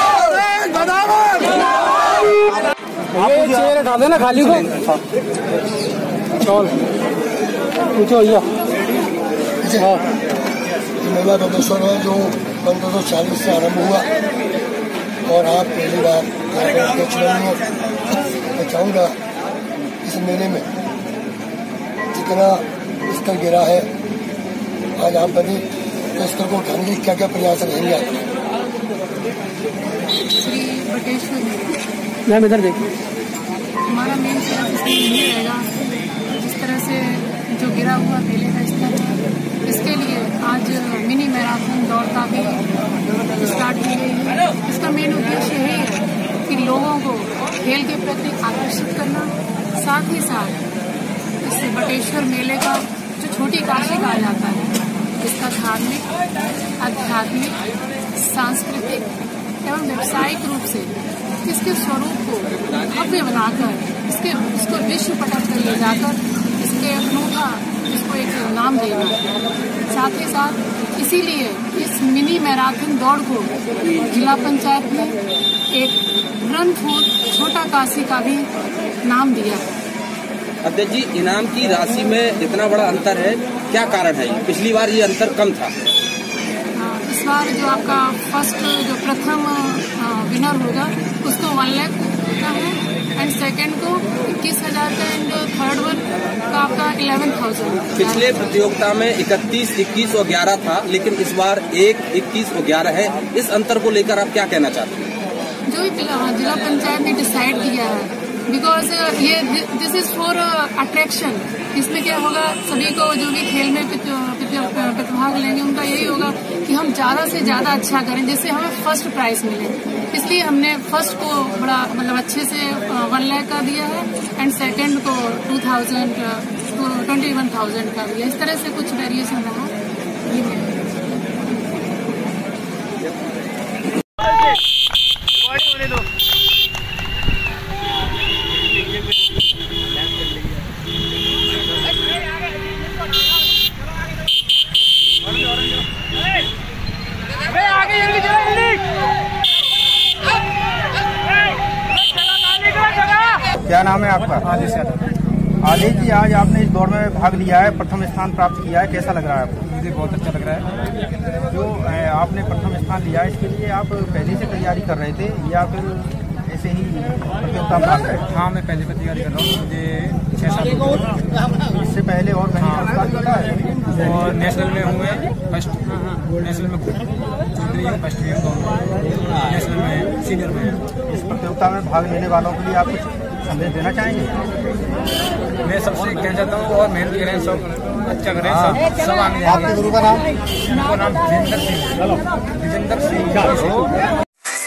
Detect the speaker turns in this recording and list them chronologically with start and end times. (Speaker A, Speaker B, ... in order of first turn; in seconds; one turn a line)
Speaker A: 0.3-1.5
Speaker A: 3.1-5.0
Speaker A: 6.4-6.8
Speaker A: 7.9-8.5
Speaker B: 9.6-10.0
Speaker B: 11.0-14.1
Speaker B: 15.2-17.6
Speaker B: 18.5-19.2
Speaker B: 20.0-20.7
Speaker B: 22.1-23.9
Speaker B: 25.0-28.2
Speaker C: 30.3-31.8
Speaker A: 32.3-32.8
Speaker C: 33.8-35.7
Speaker C: 36.3-50.6
Speaker C: 51.4-56.1
Speaker C: 56.8-57.6
Speaker C: 58.1-59.1
Speaker C: 59.6-69.3
Speaker C: 69.9-75.2
Speaker C: 75.7-78.5
Speaker C: 79.0-79.7
Speaker D: 80.6-85.7
Speaker C: 86.8-98.4
Speaker D: 98.0-105.1
Speaker C: 105.7-130.8
Speaker E: 153.6-154.6
Speaker F: 154.6-154.9
Speaker E: 155.6-159.7
Speaker F: 159.7-160.7
Speaker E: 161.5-168.2
Speaker F: 168.3-171.1
Speaker E: 171.7-173.6
Speaker F: 174.0-175.8
Speaker F: 176.4-177.0
Speaker F: 177.6-180.8
Speaker E: 181.1-184.5
Speaker F: 185.7-193.9